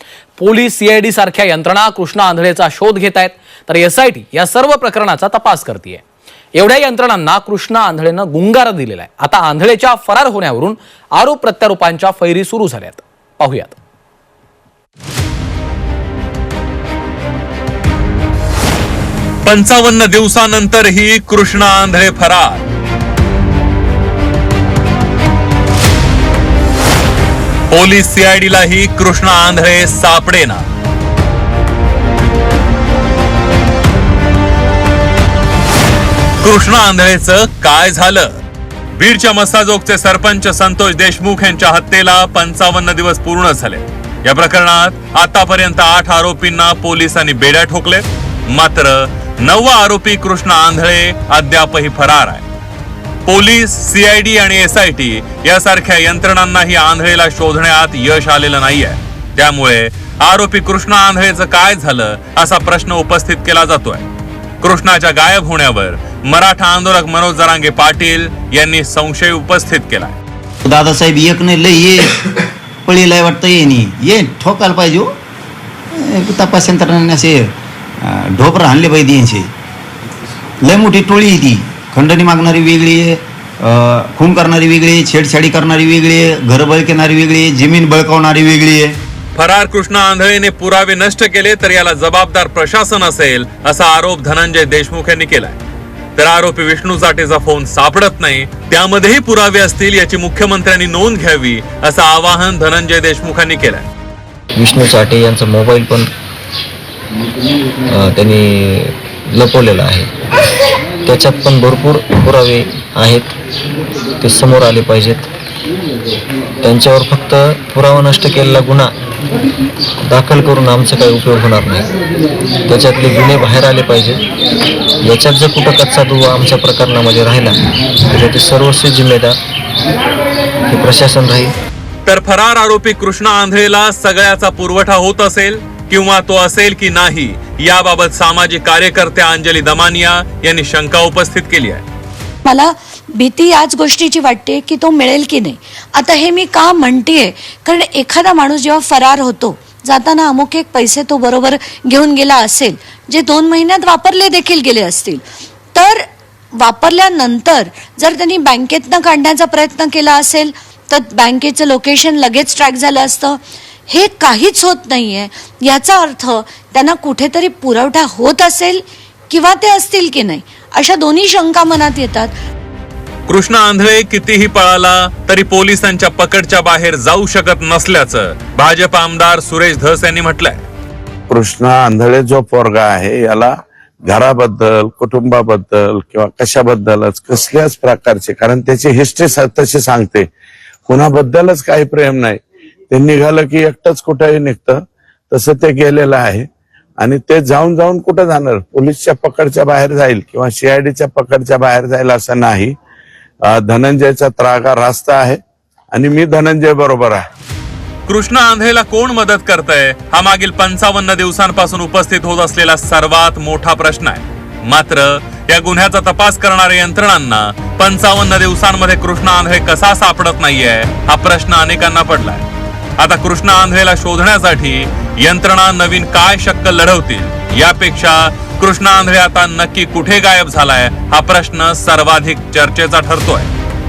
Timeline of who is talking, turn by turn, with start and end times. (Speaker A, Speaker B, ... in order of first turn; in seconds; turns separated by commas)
Speaker A: 0.4-6.0, Speaker A: 6.5-13.8, Speaker B: 19.4-22.6, Speaker B: 27.7-30.6, Speaker B: 36.4-38.3, Speaker B: 39.0-52.4, Speaker B: 53.2-64.0, Speaker B: 64.6-70.2, Speaker C: 70.6-72.1, Speaker C: 72.8-75.1, Speaker C: 76.0-79.5, Speaker C: 80.6-89.0, Speaker B: 89.3-95.6, Speaker B: 96.2-103.9, Speaker D: 104.6-106.1, Speaker D: 107.9-110.1, Speaker D: 111.0-113.3, Speaker D: 114.2-115.3, Speaker D: 116.6-118.9, Speaker D: 120.0-121.9, Speaker D: 122.7-124.2, Speaker D: 125.0-127.6, Speaker D: 128.1-129.3, Speaker D: 130.7-131.5, Speaker B: 132.1-141.8, Speaker E: 142.4-155.2, Speaker E: 155.7-163.4, Speaker E: 163.9-172.3, Speaker B: 173.3-180.6, Speaker F: 181.3-190.3, Speaker F: 190.9-192.4, Speaker F: 192.9-196.4, Speaker F: 197.0-202.7, Speaker F: 203.4-205.4, Speaker F: 205.9-207.2, Speaker B: 208.1-222.4, Speaker B: 223.0-233.5